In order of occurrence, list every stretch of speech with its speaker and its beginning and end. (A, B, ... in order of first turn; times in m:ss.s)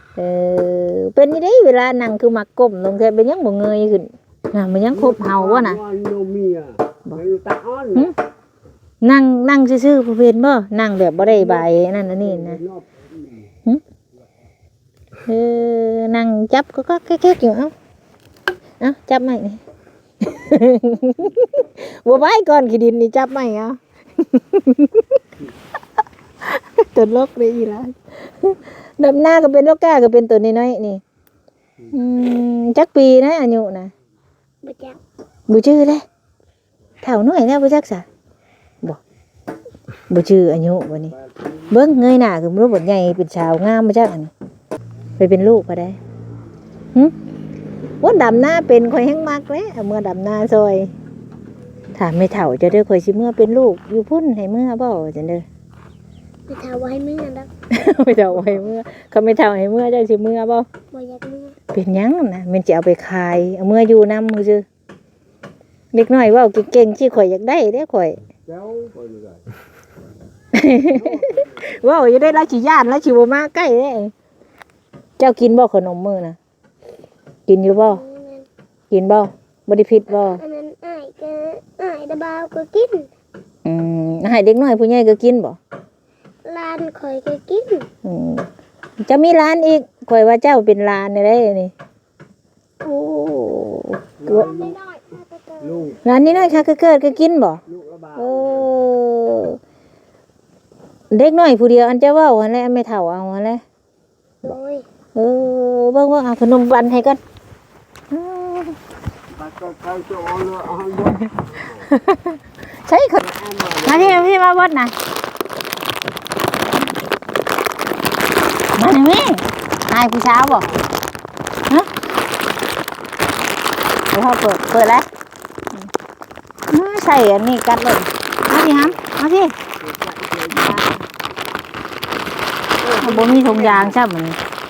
0:00.2-0:05.8 A
0:04.9-0:08.1 B
0:09.0-0:12.6 A
0:11.2-0:13.5 B
0:15.2-0:17.7 A
0:18.8-0:19.6 A
0:20.2-0:25.2 A
0:26.4-0:31.0 A
0:31.9-0:33.9 A
0:34.6-0:35.0 C
0:35.5-0:36.0 A
0:37.0-0:38.0 A
0:40.1-0:41.1 A
0:41.2-0:41.7 B
0:41.7-0:44.3 A
0:45.2-0:46.0 A
0:48.0-0:50.9 A
0:51.9-0:55.4 A
0:56.5-0:57.5 C
0:57.7-1:00.7 A
1:00.9-1:01.6 C
1:01.7-1:04.6 A
1:05.9-1:08.2 A
1:08.4-1:09.4 B
1:10.5-1:14.1 A
1:10.9-1:11.7 B
1:15.2-1:16.4 A
1:17.5-1:18.0 A
1:17.6-1:18.5 C
1:18.9-1:20.4 A
1:20.1-1:23.1 C
1:23.6-1:25.6 A
1:26.4-1:27.9 C
1:28.0-1:28.5 A
1:29.0-1:31.7 A
1:32.8-1:34.5 A
1:34.2-1:34.8 B
1:34.5-1:35.9 C
1:35.6-1:36.6 B
1:36.0-1:37.6 A
1:37.7-1:38.7 B
1:38.1-1:39.6 A
1:41.1-1:43.6 A
1:44.4-1:44.8 C
1:45.1-1:47.2 A
1:48.1-1:48.8 A
1:49.3-1:51.9 B
1:51.9-1:53.2 A
1:53.2-1:54.2 B
1:53.8-1:54.9 A
1:58.8-2:00.7 A
2:00.2-2:00.9 B
2:04.1-2:05.1 A
2:06.7-2:09.5 A
2:08.5-2:09.0 B
2:09.8-2:11.0 B
2:10.6-2:10.8 A
2:12.8-2:14.0 B
2:13.0-2:14.4 A